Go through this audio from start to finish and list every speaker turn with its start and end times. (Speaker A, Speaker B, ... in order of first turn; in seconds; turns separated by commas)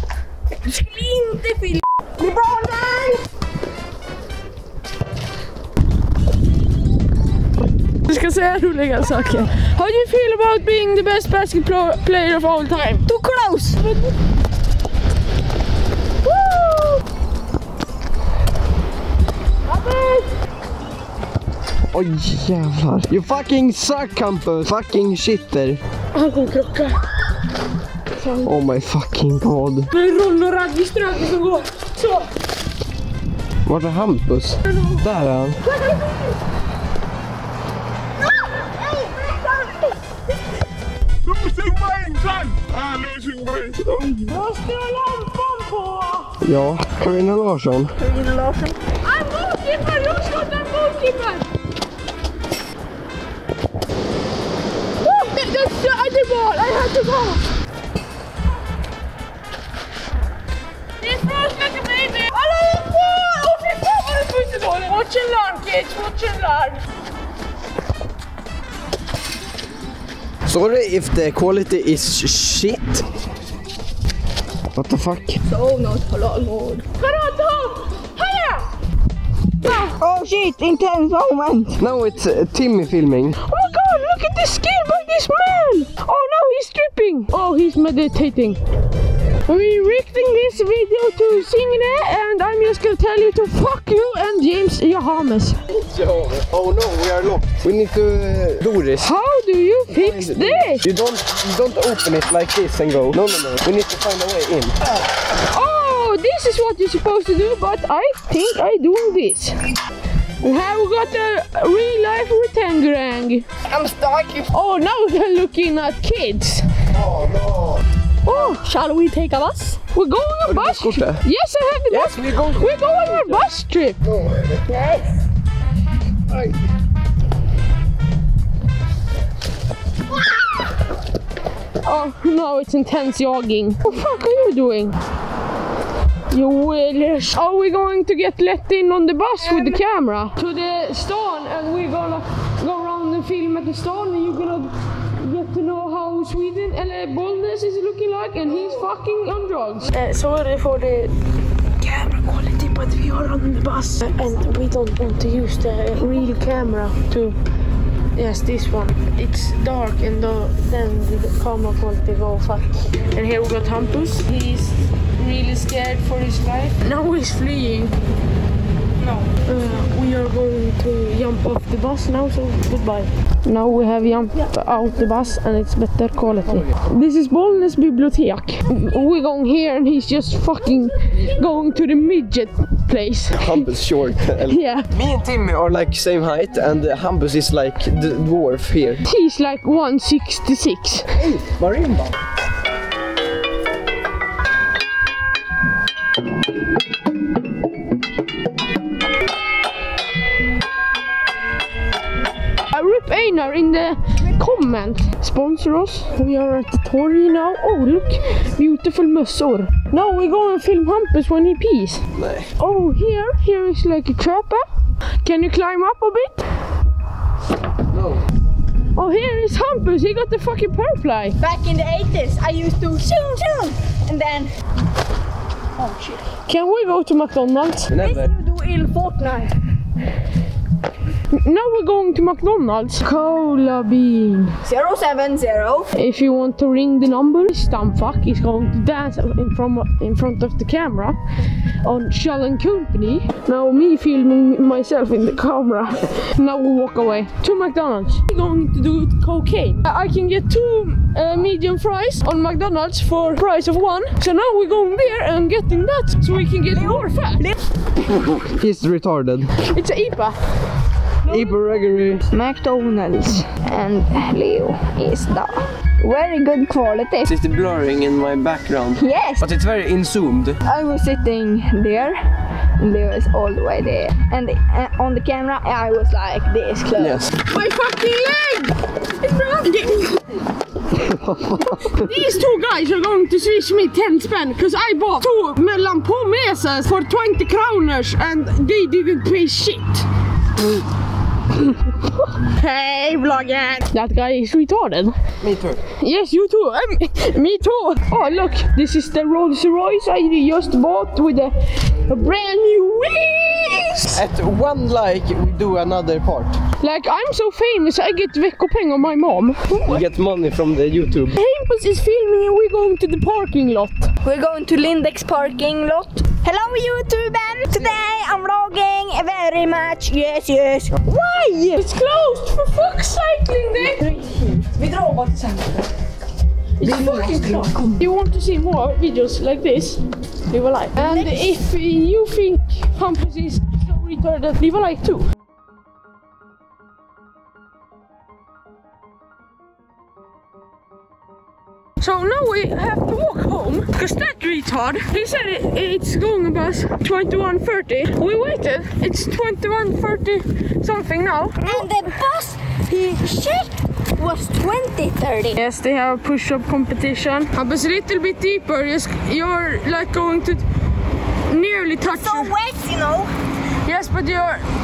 Speaker A: 0.7-3.2, Speaker B: 8.0-13.1, Speaker A: 13.1-13.8, Speaker B: 16.3-17.0, Speaker B: 19.7-20.3, Speaker C: 21.9-25.8, Speaker B: 26.1-27.0, Speaker B: 28.2-28.5, Speaker C: 28.4-29.9, Speaker B: 29.9-32.3, Speaker C: 33.7-35.6, Speaker B: 34.7-35.0, Speaker B: 35.6-36.3, Speaker B: 38.9-39.8, Speaker C: 41.3-44.3, Speaker B: 44.3-46.4, Speaker C: 46.4-48.0, Speaker A: 48.0-48.8, Speaker B: 49.0-51.5, Speaker B: 55.0-57.5, Speaker B: 61.0-66.8, Speaker C: 70.5-73.0, Speaker C: 74.8-75.4, Speaker A: 75.5-76.8, Speaker B: 77.0-78.7, Speaker B: 79.6-80.0, Speaker A: 80.0-81.8, Speaker C: 81.8-83.4, Speaker B: 83.4-88.6, Speaker B: 89.5-95.6, Speaker C: 95.7-99.1, Speaker B: 99.0-100.8, Speaker C: 99.9-104.8, Speaker B: 105.3-109.6, Speaker B: 110.4-113.5, Speaker A: 113.7-114.5, Speaker B: 114.5-116.7, Speaker C: 117.0-117.6, Speaker A: 118.3-119.8, Speaker B: 119.9-124.0, Speaker C: 120.5-121.2, Speaker C: 121.9-123.4, Speaker C: 124.1-124.6, Speaker A: 124.7-125.1, Speaker B: 131.8-135.0, Speaker B: 136.3-151.2, Speaker B: 151.8-157.4, Speaker B: 158.1-167.9, Speaker B: 169.3-183.7, Speaker C: 183.3-189.0, Speaker B: 184.4-184.9, Speaker B: 189.0-191.1, Speaker C: 191.2-192.1, Speaker B: 202.7-212.0, Speaker C: 212.1-212.5, Speaker B: 212.6-214.7, Speaker B: 215.2-216.4, Speaker C: 217.9-218.2, Speaker B: 218.9-221.4, Speaker A: 221.4-224.5, Speaker A: 225.8-226.2, Speaker B: 226.5-227.9, Speaker C: 227.9-228.3, Speaker A: 228.0-229.5, Speaker B: 231.3-234.6, Speaker A: 234.6-235.9, Speaker B: 236.0-241.2, Speaker B: 241.8-257.5, Speaker C: 258.1-259.5, Speaker B: 259.6-260.4, Speaker B: 261.2-261.6, Speaker C: 261.3-262.3, Speaker A: 262.3-267.3, Speaker C: 267.3-270.6, Speaker A: 269.0-269.5, Speaker A: 270.6-272.2, Speaker A: 272.8-277.3, Speaker C: 277.0-277.3, Speaker B: 277.4-280.2, Speaker C: 280.9-282.1, Speaker B: 281.8-290.1, Speaker B: 291.6-295.2, Speaker C: 295.4-295.8, Speaker B: 296.0-304.2, Speaker C: 304.1-306.6, Speaker B: 306.8-310.0, Speaker C: 309.8-311.4, Speaker B: 311.3-314.1, Speaker A: 314.2-321.0, Speaker B: 321.0-324.2, Speaker A: 324.2-325.6, Speaker B: 326.8-335.2, Speaker A: 326.8-328.0, Speaker A: 331.0-331.3, Speaker B: 342.0-352.0, Speaker A: 351.6-355.6, Speaker B: 355.5-360.6, Speaker B: 361.5-362.5, Speaker A: 362.1-363.3, Speaker B: 363.8-364.6